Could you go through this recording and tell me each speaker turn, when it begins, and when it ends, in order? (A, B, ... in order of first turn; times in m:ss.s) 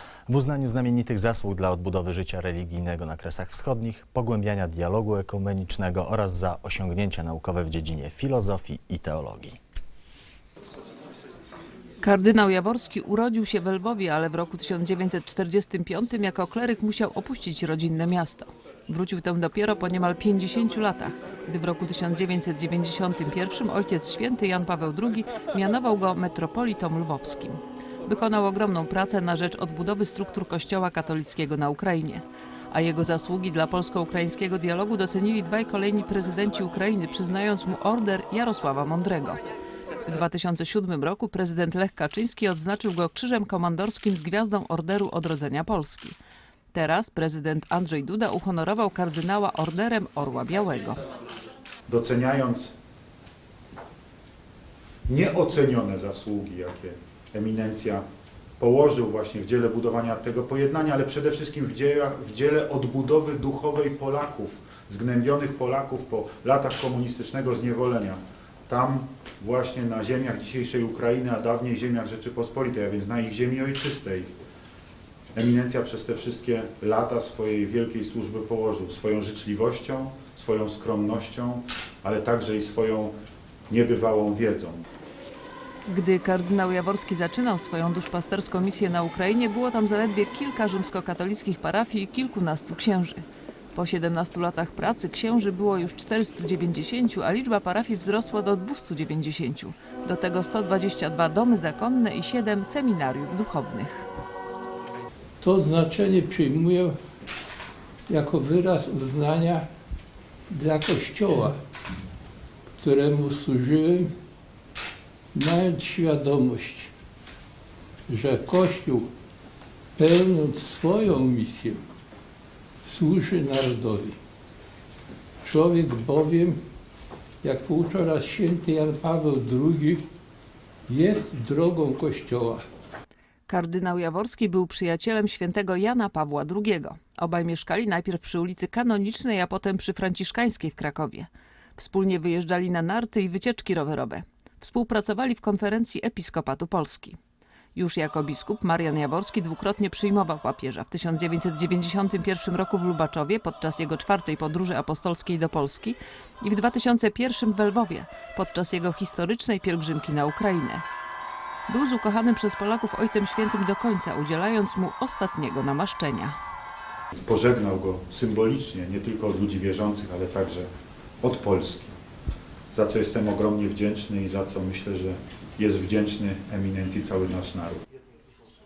0:00.3-0:09.6 A
0:12.0-0:39.4 B
0:40.1-0:46.2 B
0:46.7-0:51.0 B
0:51.9-0:52.7 C
0:55.1-0:58.0 C
0:58.6-1:14.3 C
1:15.4-1:23.1 C
1:23.7-1:24.8 C
1:25.9-1:33.2 B
1:33.8-1:44.1 B
1:45.4-1:47.0 D
1:48.1-1:49.7 D
1:50.5-1:51.6 D
1:52.8-1:54.2 D
1:55.3-1:56.9 D
1:58.1-1:59.1 D
2:00.0-2:01.8 D
2:02.8-2:04.2 D
2:05.4-2:06.6 D
2:07.4-2:10.0 D
2:10.9-2:12.6 D
2:13.5-2:27.2 B
2:27.8-2:40.8 B
2:41.7-2:46.4 B
2:47.1-2:50.7 C
2:51.2-2:51.9 C
2:52.7-2:57.8 C